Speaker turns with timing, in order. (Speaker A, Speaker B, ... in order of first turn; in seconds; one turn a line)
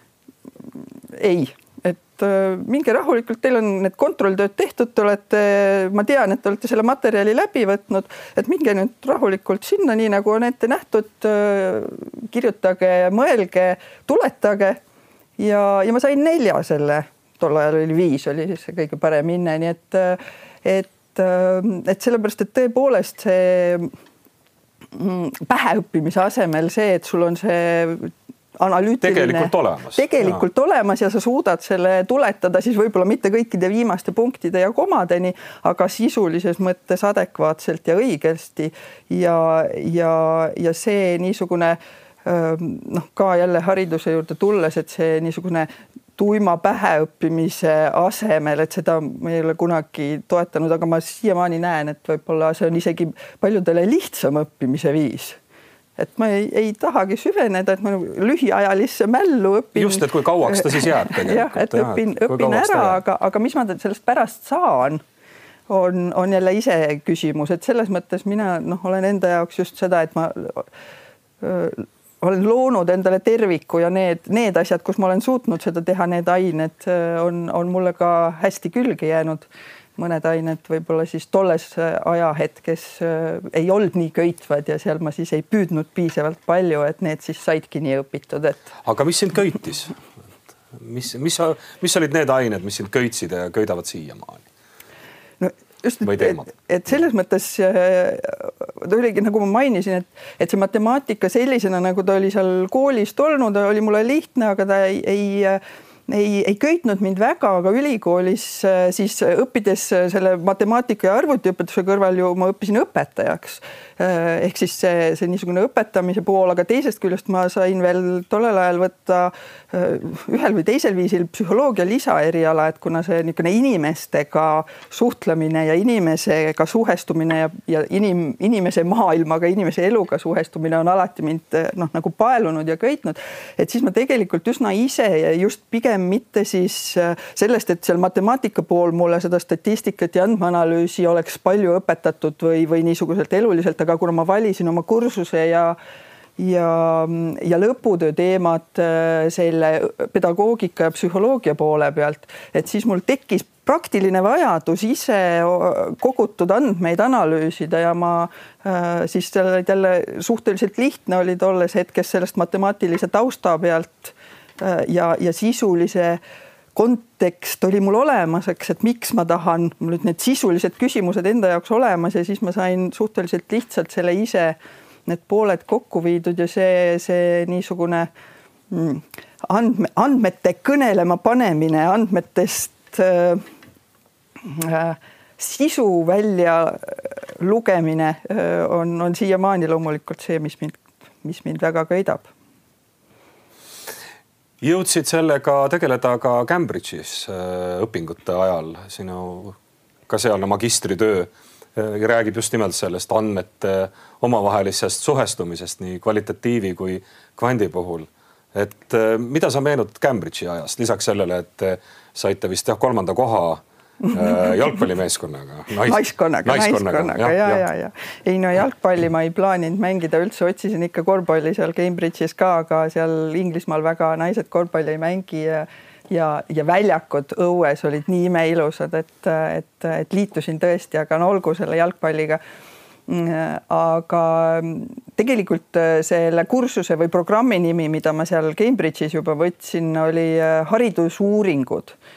Speaker A: 1.1-14.8
Speaker A: 15.4-23.9
Speaker A: 24.9-55.4
Speaker B: 29.0-30.4
Speaker A: 56.0-65.0
Speaker B: 59.7-63.0
Speaker A: 65.7-70.7
Speaker A: 71.4-79.5
Speaker A: 80.0-88.7
Speaker B: 88.8-89.9
Speaker B: 90.7-94.5
Speaker A: 95.4-145.8
Speaker B: 96.0-96.5
Speaker A: 146.4-166.2
Speaker A: 166.7-178.1
Speaker A: 178.7-183.4
Speaker A: 184.4-192.3
Speaker B: 194.6-199.6
Speaker B: 200.1-217.6
Speaker A: 215.8-232.4
Speaker A: 233.1-241.9